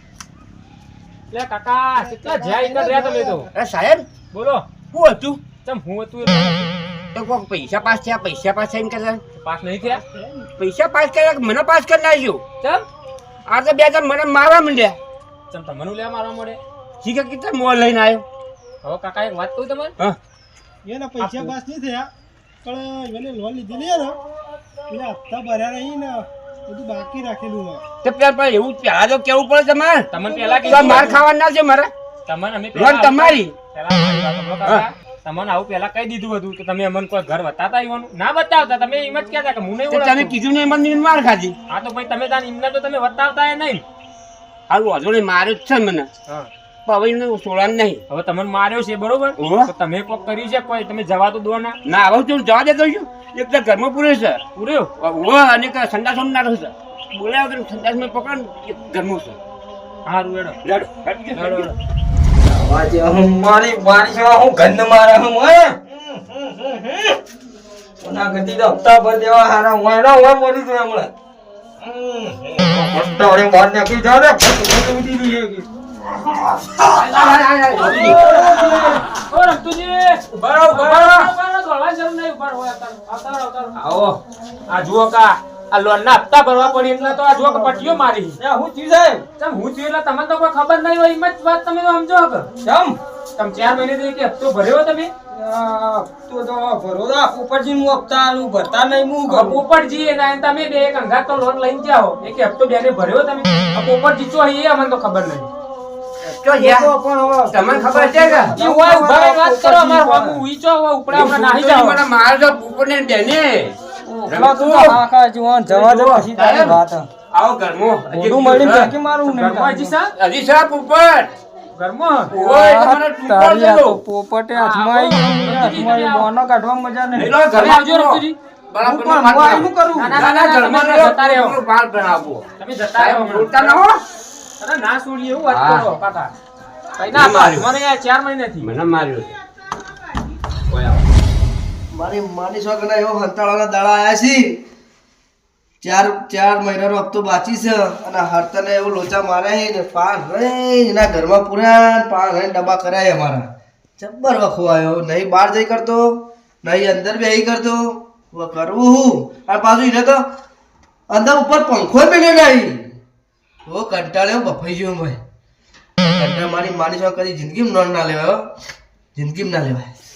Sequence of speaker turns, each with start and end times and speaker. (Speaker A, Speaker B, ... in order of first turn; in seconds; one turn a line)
Speaker A: 1.3-3.5
Speaker B: 1.9-3.5
Speaker C: 3.5-4.0
Speaker A: 4.3-4.7
Speaker C: 4.9-5.4
Speaker A: 5.6-6.7
Speaker C: 7.1-9.2
Speaker A: 9.4-10.0
Speaker B: 9.9-10.5
Speaker C: 10.6-12.4
Speaker C: 13.5-15.0
Speaker A: 15.5-16.6
Speaker C: 17.0-18.2
Speaker A: 18.8-19.9
Speaker B: 20.9-22.1
Speaker A: 21.2-21.5
Speaker B: 22.6-24.2
Speaker B: 24.9-27.8
Speaker C: 28.0-30.1
Speaker A: 30.1-31.2
Speaker B: 30.2-31.1
Speaker C: 30.6-31.9
Speaker A: 32.3-40.4
Speaker C: 32.8-33.5
Speaker C: 39.9-41.6
Speaker A: 41.7-43.8
Speaker C: 44.7-46.1
Speaker C: 46.9-48.0
Speaker A: 48.1-51.8
Speaker C: 49.4-49.7
Speaker C: 51.9-54.4
Speaker A: 54.6-54.9
Speaker C: 55.0-59.4
Speaker A: 60.1-60.6
Speaker C: 60.6-61.8
Speaker A: 61.4-61.7
Speaker D: 62.4-67.2
Speaker D: 68.0-71.1
Speaker D: 71.8-75.7
Speaker D: 76.2-76.9
Speaker C: 76.8-78.3
Speaker D: 77.7-79.0
Speaker A: 77.8-83.7
Speaker C: 80.7-81.3
Speaker C: 83.8-84.2
Speaker A: 84.7-88.4
Speaker D: 87.4-89.2
Speaker A: 89.4-92.5
Speaker D: 92.6-93.0
Speaker A: 93.4-95.1
Speaker D: 95.3-99.6
Speaker A: 99.3-105.5
Speaker D: 106.2-110.4
Speaker C: 106.4-106.9
Speaker C: 107.5-108.6
Speaker A: 108.6-112.0
Speaker C: 111.1-113.8
Speaker D: 114.0-117.1
Speaker C: 114.3-115.0
Speaker C: 115.7-116.8
Speaker C: 117.3-118.9
Speaker D: 118.1-119.9
Speaker A: 119.2-120.1
Speaker C: 120.1-121.3
Speaker A: 121.8-122.3
Speaker C: 122.3-124.0
Speaker D: 122.3-127.3
Speaker A: 124.5-126.3
Speaker C: 127.1-134.0
Speaker A: 127.5-128.4
Speaker D: 128.8-130.2
Speaker A: 129.9-131.6
Speaker A: 132.6-133.8
Speaker A: 134.6-136.3
Speaker C: 135.5-135.9
Speaker A: 137.0-138.7
Speaker C: 137.1-137.7
Speaker C: 138.6-139.3
Speaker C: 140.7-141.0
Speaker E: 141.9-144.6
Speaker E: 145.8-153.5
Speaker E: 154.0-160.2
Speaker E: 161.1-162.9
Speaker E: 163.7-165.2
Speaker E: 166.0-168.5
Speaker E: 169.1-169.9